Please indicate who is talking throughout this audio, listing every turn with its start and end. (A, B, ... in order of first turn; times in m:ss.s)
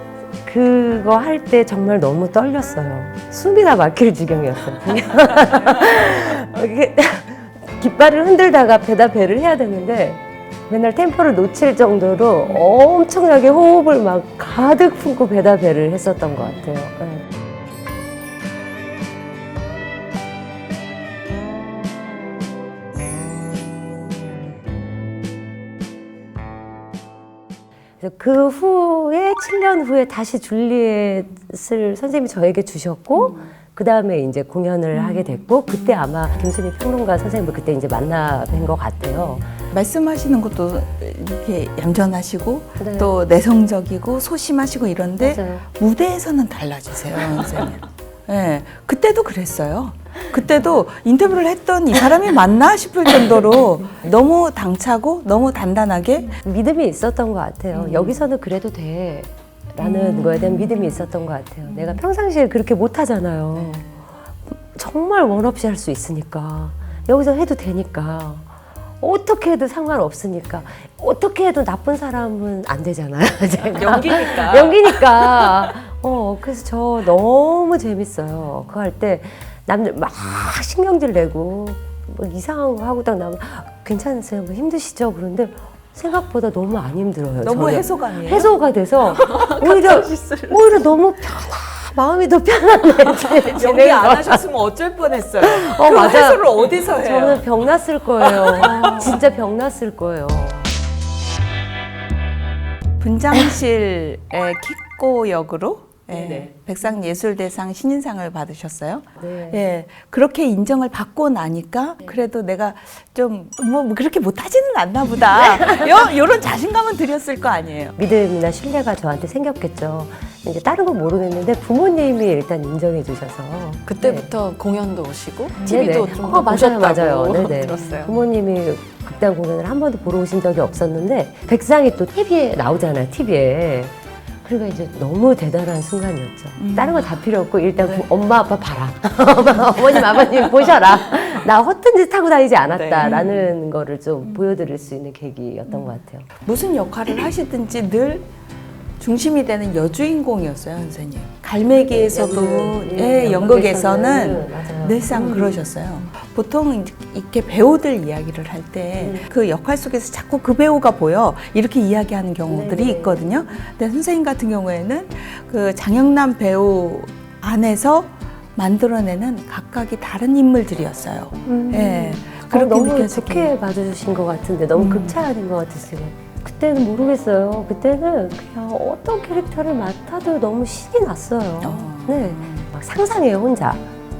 0:00.4-0:17.2 A
0:28.0-0:39.5 A
0:33.1-0:33.5 B
0:34.9-0:35.2 B
0:39.7-0:56.4 B
0:42.8-0:43.1 A
0:45.2-0:45.6 A
0:56.4-1:03.9 A
0:57.7-0:58.2 B
0:59.8-1:00.9 B
1:01.6-1:02.0 B
1:04.5-1:34.4 A
1:13.8-1:14.9 C
1:27.4-1:28.5 B
1:29.2-1:30.2 B
1:29.9-1:30.4 C
1:33.5-1:37.5 B
1:35.4-1:40.7 A
1:38.2-1:39.2 B
1:43.0-1:58.0 B
1:46.1-1:46.6 A
1:49.2-1:49.6 A
1:55.5-1:55.9 A
1:58.0-2:04.3 A
2:03.9-2:08.1 C
2:05.6-2:05.9 B
2:05.6-2:13.9 A
2:07.7-2:08.1 B
2:14.4-2:26.3 A
2:16.6-2:17.2 B
2:22.6-2:23.2 C
2:23.0-2:23.5 B
2:24.2-2:24.5 B
2:26.4-2:28.3 B
2:29.0-2:53.5 B
2:31.9-2:35.6 A
2:39.0-2:39.3 A
2:42.5-2:43.6 A
2:51.5-3:03.8 A
2:54.8-2:55.2 B
3:01.6-3:02.7 B